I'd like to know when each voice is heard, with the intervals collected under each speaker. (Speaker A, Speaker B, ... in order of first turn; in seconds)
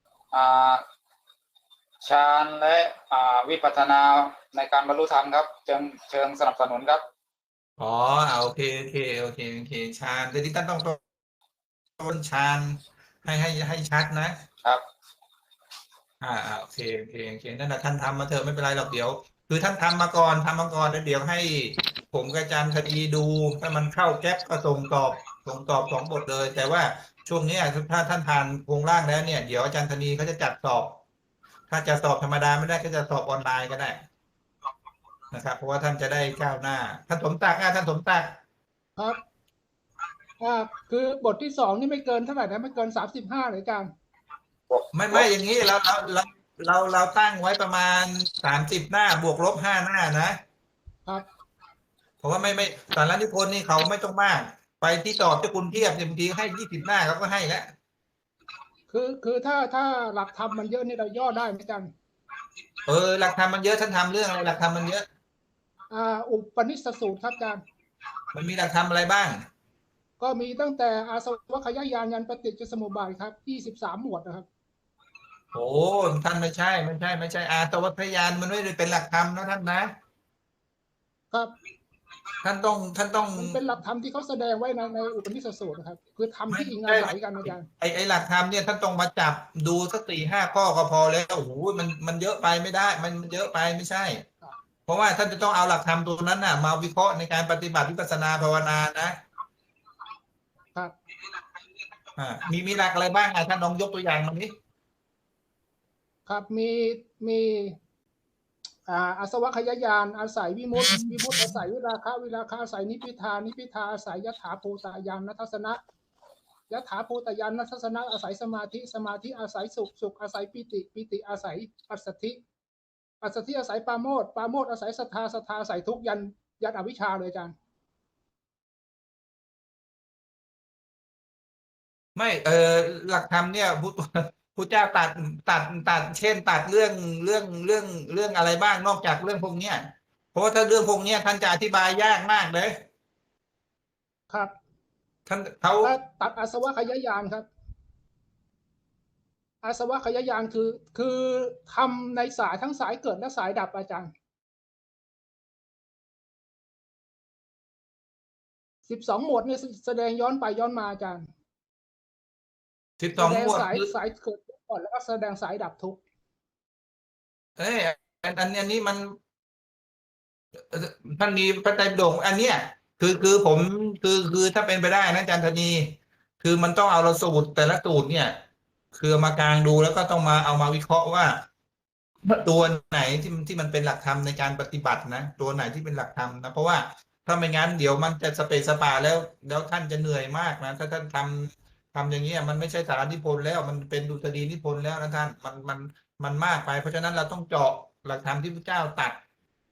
Speaker A: 0.3-0.8, 2.0-7.0
Speaker B: 7.8-11.0, 12.0-14.3, 16.2-31.0, 31.7-34.0, 35.3-38.4, 44.9-50.4, 52.2-57.7, 62.9-65.0, 68.3-69.5, 75.5-79.9, 82.4-83.6, 86.5-94.2, 94.9-99.2, 102.2-104.5, 132.2-142.8, 145.3-145.9, 163.0-163.9, 167.6-169.2, 170.7-178.4, 178.9-181.4, 182.2-199.2
Speaker C: 40.4-43.9, 58.9-61.9, 65.9-67.6, 70.2-74.5, 83.4-87.7, 106.3-107.8, 108.9-115.8, 116.7-122.4, 123.2-127.5, 145.8-147.5, 149.6-154.1, 158.9-161.3, 163.2-166.0